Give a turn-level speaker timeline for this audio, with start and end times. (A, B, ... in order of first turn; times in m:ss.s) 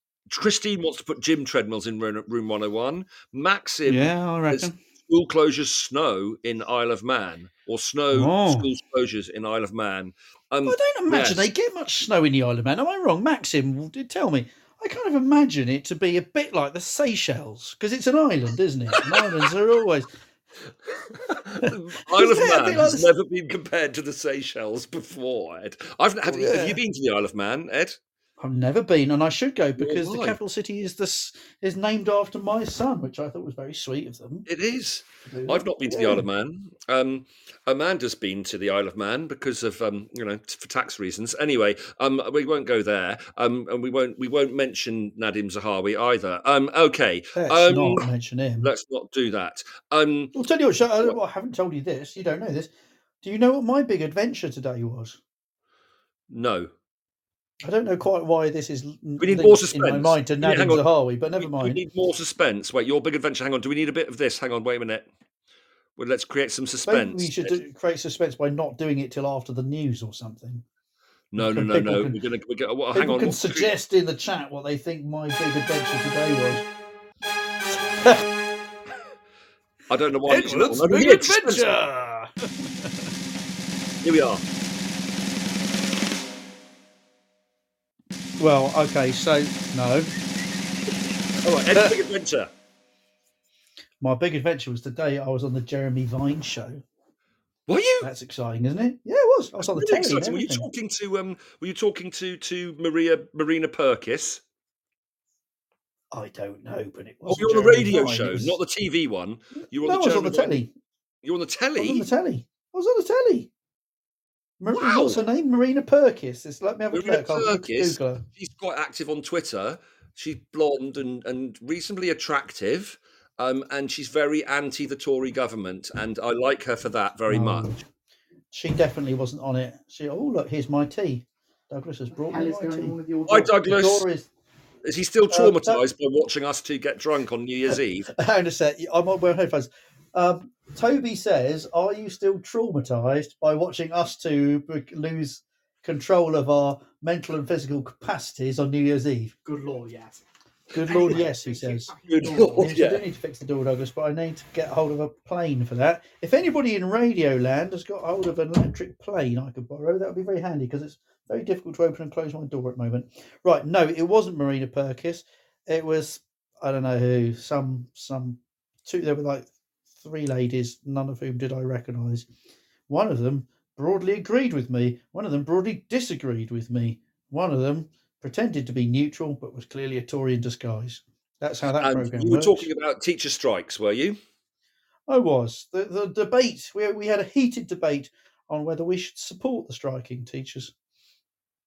0:00.3-0:11.5 A
0:03.8-0:04.8 B
0:08.1-0:08.7 B
0:10.6-0:20.1 B
0:18.9-0:19.4 A
0:21.1-0:28.0 A
0:21.6-0:23.1 B
0:26.2-0:26.8 B
0:28.4-0:34.4 B
0:29.8-0:30.4 A
0:34.5-0:48.1 A
0:35.3-0:36.2 B
0:47.3-0:48.7 B
0:48.6-0:50.3 A
0:50.3-0:52.7 B
0:53.2-0:55.2 B
0:56.3-0:56.7 A
0:57.6-1:01.8 B
0:59.2-1:00.9 A
1:01.4-1:05.1 A
1:06.0-1:07.6 A
1:06.8-1:10.6 B
1:11.3-1:13.7 A
1:11.4-1:12.2 B
1:12.9-1:16.6 B
1:18.0-1:18.3 B
1:19.9-1:21.7 A
1:20.2-1:23.1 B
1:24.0-1:24.4 A
1:28.4-1:30.1 B
1:31.4-1:32.5 A
1:34.0-1:36.8 B
1:37.7-1:38.1 A
1:38.0-1:40.7 B
1:39.6-1:44.4 A
1:46.1-1:48.6 B
1:47.2-1:50.6 A
1:49.8-1:50.7 B
1:51.2-1:52.1 A
1:51.8-1:53.5 B
1:54.6-1:58.2 B
1:54.7-1:55.2 A
1:56.9-2:07.8 A
2:07.3-2:07.8 B
2:08.5-2:13.0 B
2:12.3-2:13.5 C
2:13.3-2:14.1 A
2:13.6-2:14.3 B
2:14.8-2:18.1 A
2:15.3-2:15.8 B
2:18.2-2:29.3 B
2:29.4-2:30.2 C
2:30.7-2:31.9 B
2:30.8-2:32.8 C
2:32.1-2:33.0 A
2:32.6-2:49.5 B
2:50.0-2:52.3 B
2:52.9-3:02.7 B
3:01.8-3:04.2 A
3:05.1-3:10.7 B